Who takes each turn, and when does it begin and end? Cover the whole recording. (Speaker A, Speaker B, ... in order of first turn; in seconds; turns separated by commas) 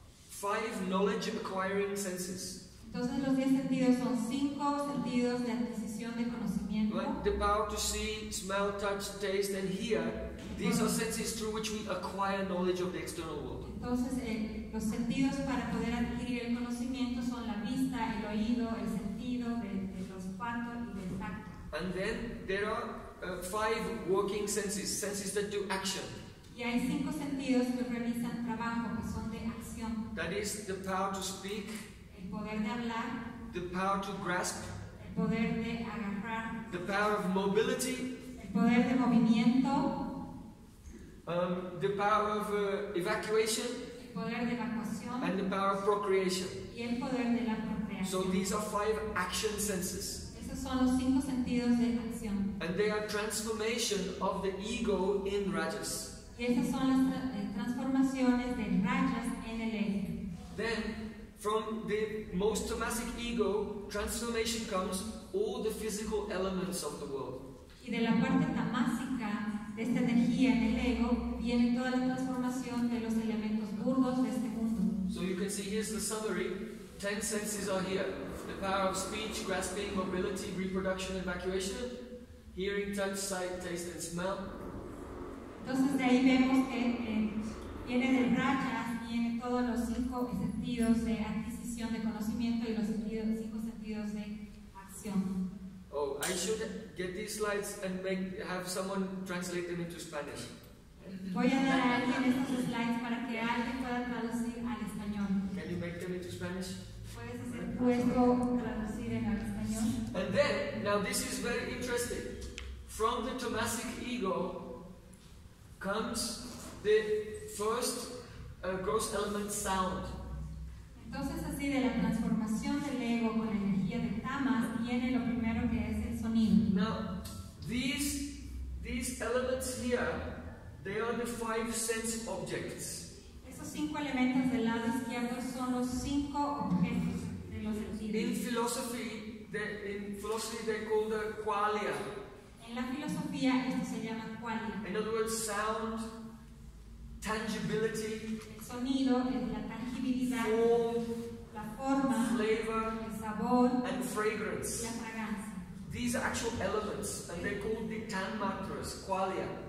Speaker A: 0.3-2.6, Speaker B: 2.8-7.2, Speaker A: 6.9-13.7, Speaker B: 10.4-10.9, Speaker B: 13.6-21.6, Speaker A: 21.7-26.1, Speaker B: 26.5-30.0, Speaker A: 30.1-31.9, Speaker B: 32.1-33.2, Speaker A: 33.5-34.7, Speaker B: 35.0-37.0, Speaker A: 36.7-38.1, Speaker B: 38.4-39.9, Speaker A: 41.2-43.8, Speaker B: 44.0-45.3, Speaker A: 45.2-46.6, Speaker B: 46.7-48.4, Speaker A: 48.0-50.2, Speaker B: 50.3-52.5, Speaker A: 52.6-56.1, Speaker B: 56.3-60.2, Speaker A: 60.5-67.4, Speaker B: 67.8-74.9, Speaker A: 75.1-82.0, Speaker A: 82.5-84.5, Speaker B: 85.6-95.3, Speaker A: 95.9-102.1, Speaker B: 101.3-105.5, Speaker A: 105.5-106.8, Speaker B: 107.1-110.0, Speaker A: 110.1-112.3, Speaker A: 112.9-114.6, Speaker A: 115.8-120.1, Speaker B: 121.0-126.7, Speaker A: 126.7-133.1, Speaker B: 133.4-138.3, Speaker A: 138.1-142.1, Speaker B: 142.6-144.8, Speaker A: 144.8-146.1, Speaker A: 147.2-148.3, Speaker B: 148.4-150.6, Speaker A: 150.3-151.1, Speaker B: 151.5-152.4, Speaker A: 152.2-153.0, Speaker B: 153.0-154.0, Speaker A: 153.8-154.9, Speaker B: 154.7-155.6, Speaker A: 155.8-159.5